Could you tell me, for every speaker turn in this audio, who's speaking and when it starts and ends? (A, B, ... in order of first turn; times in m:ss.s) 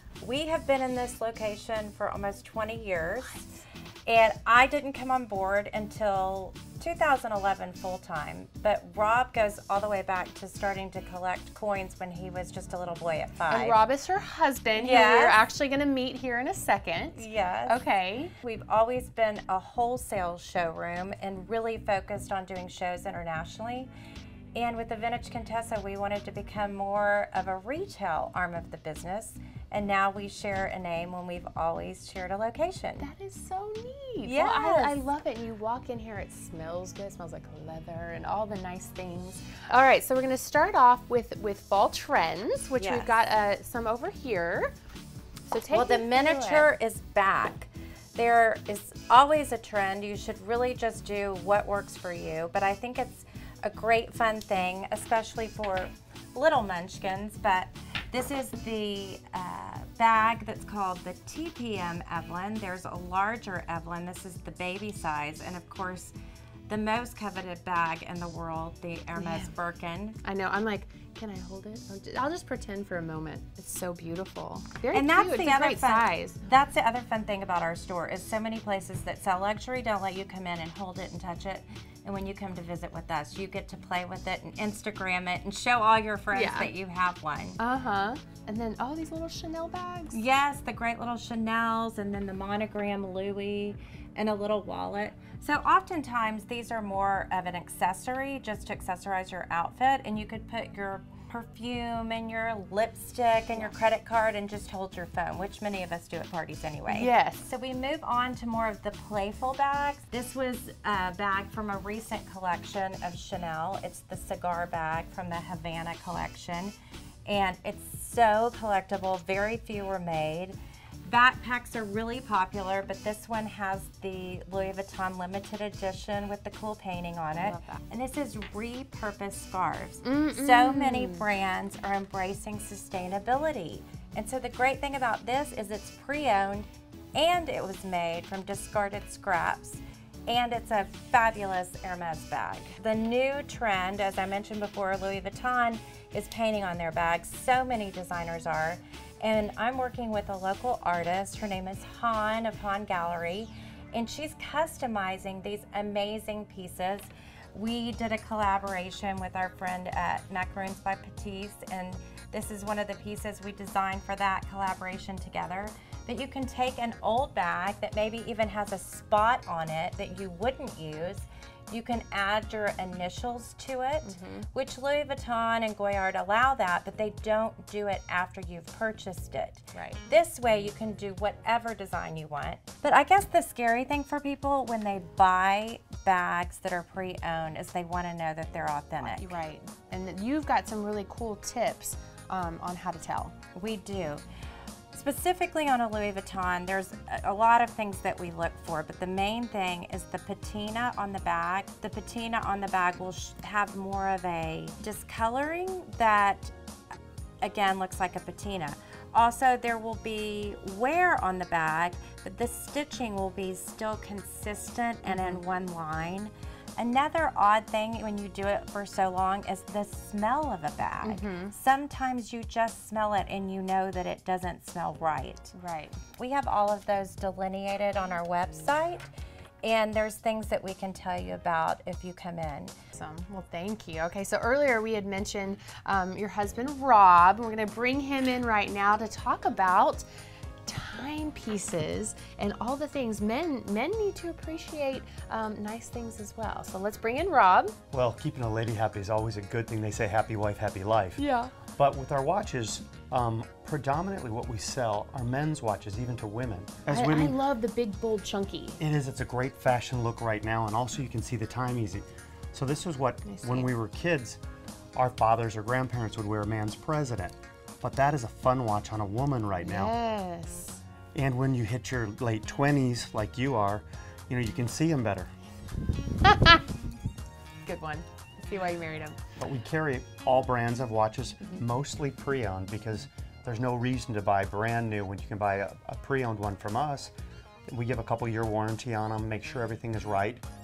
0:00.2-0:03.4 A
0:04.0-0:13.8 A
0:13.5-0:18.3 B
0:14.8-0:15.4 A
0:17.1-0:17.8 A
0:18.4-0:23.9 A
0:24.5-0:33.1 A
0:33.0-0:44.7 B
0:34.2-0:35.0 A
0:42.8-0:43.1 A
0:45.5-0:46.7 B
0:45.7-1:06.1 A
1:06.7-1:10.2 A
1:09.2-1:09.5 B
1:10.2-1:16.4 B
1:14.9-1:27.6 A
1:26.3-1:26.7 B
1:27.6-1:30.2 B
1:30.1-1:56.7 A
1:46.9-1:47.5 B
1:57.2-3:09.3 A
2:07.3-2:07.8 B
2:10.0-2:11.2 B
2:54.0-2:54.5 B
2:59.7-3:00.0 B
3:09.0-3:13.3 B
3:13.5-3:14.2 A
3:14.9-3:26.5 A
3:27.4-3:45.5 A
3:35.0-3:35.4 B
3:41.0-3:41.5 B
3:45.5-3:46.0 B
3:46.2-3:49.1 A
3:49.6-3:52.7 A
3:52.9-4:00.0 B
4:00.6-4:07.8 B
4:07.9-4:11.2 C
4:11.2-4:11.5 B
4:11.7-4:17.4 C
4:16.9-4:18.8 B
4:18.8-4:24.4 C
4:23.2-4:23.7 B
4:24.9-4:29.9 C
4:29.6-4:30.8 B
4:31.1-4:35.3 C
4:36.2-4:36.6 B
4:37.6-4:39.2 B
4:39.4-4:47.1 C
4:47.7-4:50.4 C